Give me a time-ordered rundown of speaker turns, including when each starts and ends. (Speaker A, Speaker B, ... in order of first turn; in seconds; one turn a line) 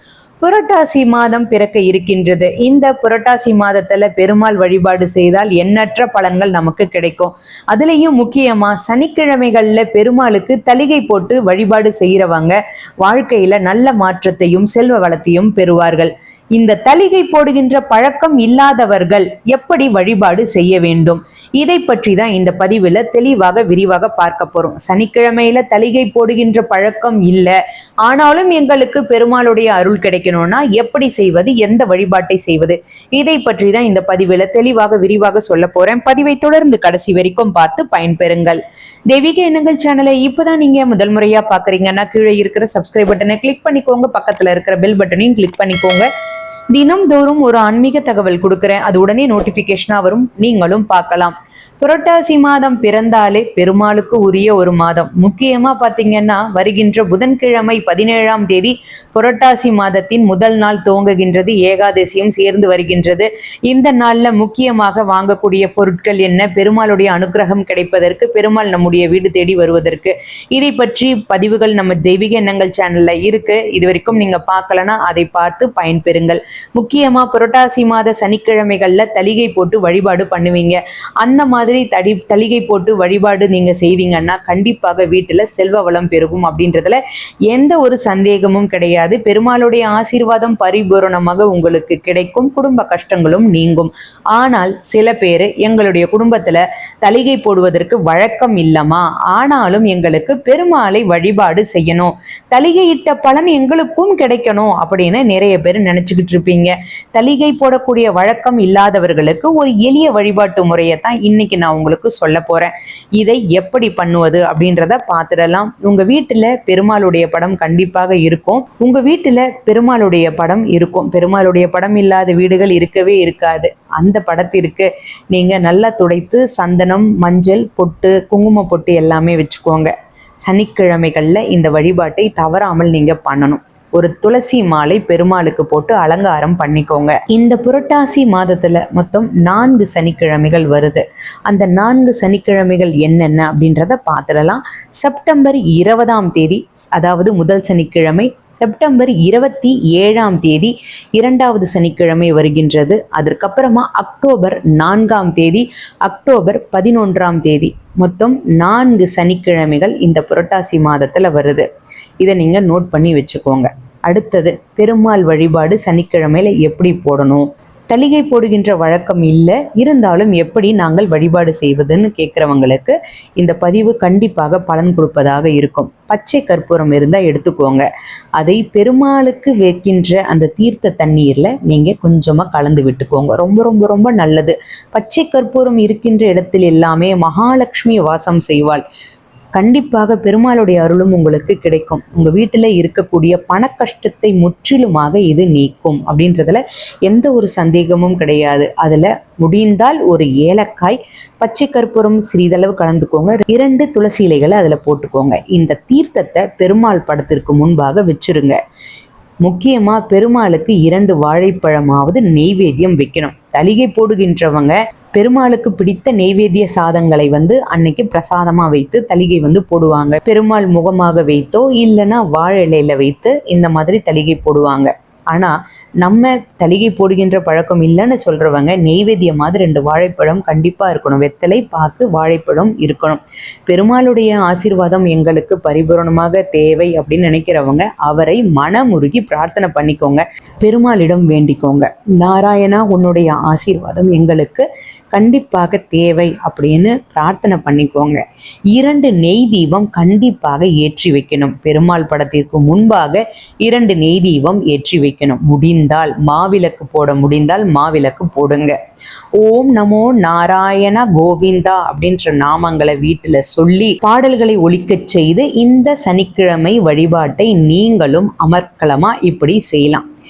Speaker A: 0.4-27.5
Speaker A: 28.1-46.1
Speaker A: 46.7-129.9
Speaker A: 130.4-161.7
Speaker A: 162.2-177.9
Speaker A: 178.4-188.8
Speaker A: 189.6-208.6
Speaker A: 209.4-248.2
Speaker A: 248.7-258.8
Speaker A: 259.4-270.0